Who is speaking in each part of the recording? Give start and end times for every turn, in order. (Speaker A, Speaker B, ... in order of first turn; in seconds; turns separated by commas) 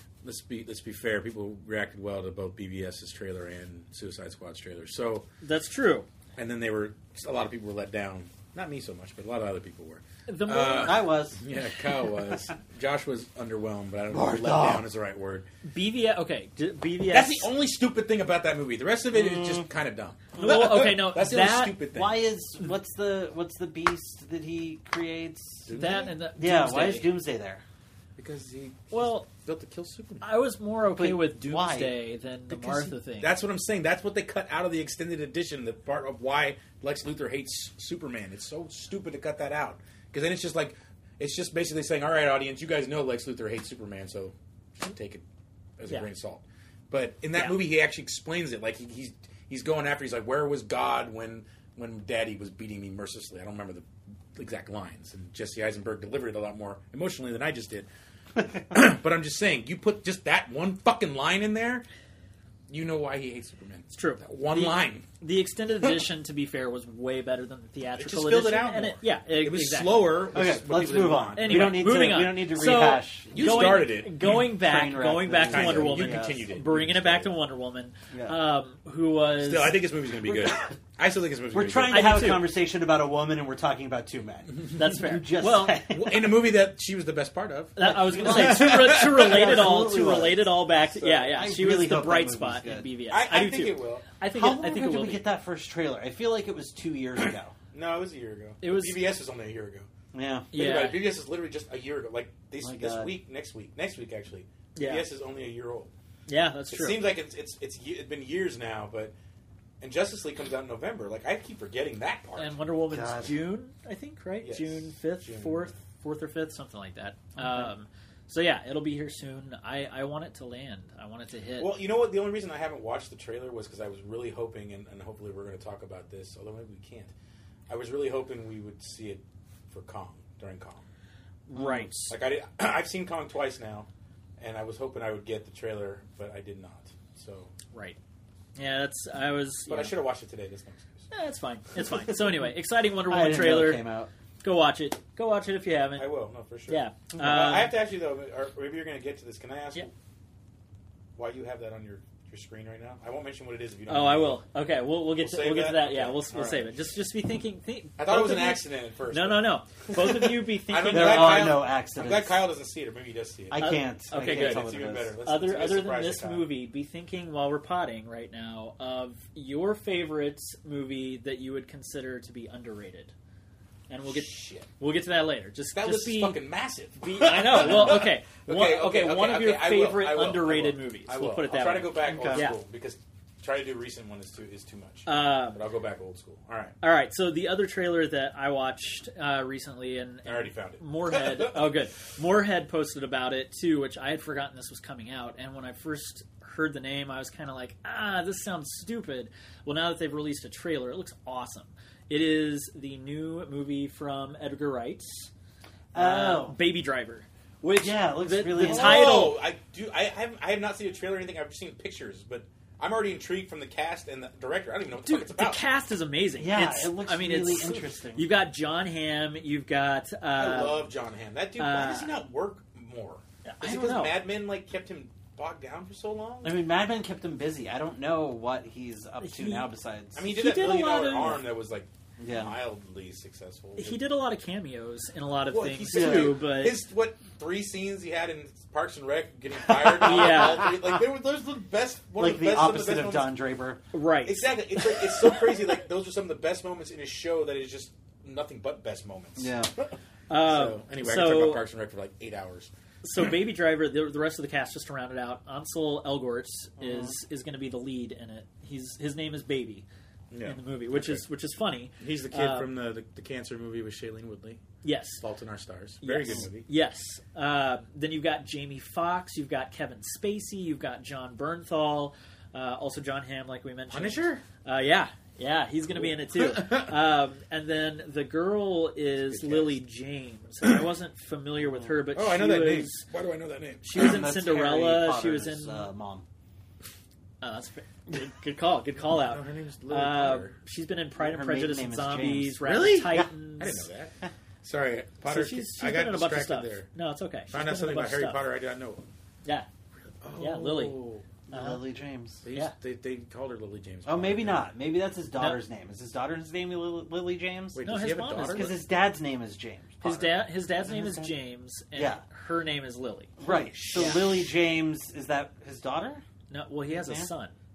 Speaker A: 0.2-5.3, Speaker B: 5.4-6.1, Speaker A: 6.4-15.4, Speaker B: 10.3-11.1, Speaker C: 10.8-11.4, Speaker C: 14.1-14.8, Speaker B: 15.7-17.5, Speaker A: 17.1-22.2, Speaker C: 19.1-19.6, Speaker B: 20.4-21.8, Speaker C: 20.4-20.7, Speaker C: 21.9-25.7, Speaker A: 25.6-26.1, Speaker B: 25.8-27.1, Speaker C: 26.4-27.6, Speaker A: 28.1-30.2, Speaker B: 28.9-29.3, Speaker B: 30.2-33.3, Speaker C: 30.9-32.0, Speaker A: 32.5-45.2, Speaker A: 45.8-57.9, Speaker A: 58.6-61.8, Speaker A: 62.7-65.1, Speaker B: 63.9-70.1, Speaker A: 68.0-71.9, Speaker C: 70.3-76.4, Speaker B: 71.4-79.8, Speaker A: 73.3-74.5, Speaker A: 75.4-77.3, Speaker C: 78.1-78.4, Speaker A: 79.4-82.3, Speaker C: 81.5-86.3, Speaker B: 81.9-82.5, Speaker B: 84.7-85.8, Speaker A: 85.7-89.7, Speaker B: 87.8-95.2, Speaker C: 87.8-90.5, Speaker A: 90.9-91.3, Speaker C: 91.2-92.9, Speaker A: 93.1-94.1, Speaker C: 94.3-97.5, Speaker A: 97.7-99.9, Speaker B: 98.6-99.1, Speaker C: 100.1-100.5, Speaker B: 100.5-101.0, Speaker A: 100.5-105.9, Speaker C: 102.6-103.2, Speaker B: 104.8-105.0, Speaker B: 106.3-107.1, Speaker A: 106.7-109.1, Speaker A: 109.8-112.6, Speaker B: 112.4-121.7, Speaker C: 112.9-113.3, Speaker A: 114.4-115.7, Speaker A: 121.6-127.1, Speaker A: 127.7-130.8, Speaker B: 131.5-132.1, Speaker A: 132.0-133.9, Speaker A: 134.4-137.5, Speaker B: 137.7-138.0, Speaker B: 138.6-139.9, Speaker A: 139.7-141.1, Speaker B: 141.1-143.8, Speaker C: 143.1-144.1, Speaker B: 144.4-146.1, Speaker A: 146.0-149.9, Speaker B: 146.7-147.7, Speaker A: 151.2-154.4, Speaker B: 153.9-161.6, Speaker A: 155.2-156.7, Speaker A: 158.0-166.5, Speaker C: 160.9-162.4, Speaker C: 163.5-165.1, Speaker B: 163.6-173.1, Speaker B: 173.9-176.4, Speaker A: 174.0-174.7, Speaker A: 175.7-186.7, Speaker B: 177.0-182.6, Speaker C: 182.0-182.5, Speaker B: 185.1-185.6, Speaker B: 186.8-205.3, Speaker A: 190.2-191.7, Speaker C: 205.9-206.6, Speaker B: 205.9-209.4, Speaker C: 207.8-209.2, Speaker A: 208.5-215.6, Speaker B: 215.0-220.8, Speaker C: 216.4-218.2, Speaker A: 220.3-226.6, Speaker B: 221.6-222.1, Speaker B: 223.4-224.2, Speaker C: 226.4-230.2, Speaker B: 229.2-229.7, Speaker A: 230.1-234.0, Speaker B: 230.3-231.4, Speaker C: 232.2-232.5, Speaker B: 233.8-236.8, Speaker A: 235.5-243.3, Speaker C: 235.9-236.4, Speaker C: 239.8-241.0, Speaker B: 240.0-240.7, Speaker C: 242.2-243.8, Speaker B: 243.9-244.4, Speaker A: 244.2-252.7, Speaker C: 249.4-249.7, Speaker B: 250.3-251.6, Speaker B: 253.0-259.9, Speaker C: 256.8-257.1, Speaker A: 260.3-261.2, Speaker B: 260.4-262.7, Speaker A: 262.0-264.6, Speaker B: 264.8-265.2, Speaker A: 265.2-266.6, Speaker B: 266.0-283.0, Speaker A: 273.9-274.4, Speaker A: 275.9-276.9, Speaker A: 279.2-279.8, Speaker A: 282.1-284.1, Speaker B: 283.8-285.9, Speaker C: 283.9-286.2, Speaker B: 287.4-293.9, Speaker A: 289.1-290.5, Speaker C: 291.2-293.3, Speaker A: 293.6-296.9, Speaker B: 295.2-298.4, Speaker A: 297.5-299.0, Speaker A: 300.2-301.2, Speaker B: 300.4-301.0, Speaker C: 301.5-302.4, Speaker B: 301.5-301.8, Speaker A: 302.4-304.7, Speaker C: 304.1-307.8, Speaker A: 307.7-308.8, Speaker B: 307.8-308.7, Speaker C: 308.5-311.4, Speaker B: 310.0-313.3, Speaker C: 311.9-312.2, Speaker C: 313.4-316.2, Speaker A: 313.4-314.5, Speaker B: 313.9-314.2, Speaker B: 316.5-317.5, Speaker C: 316.9-317.3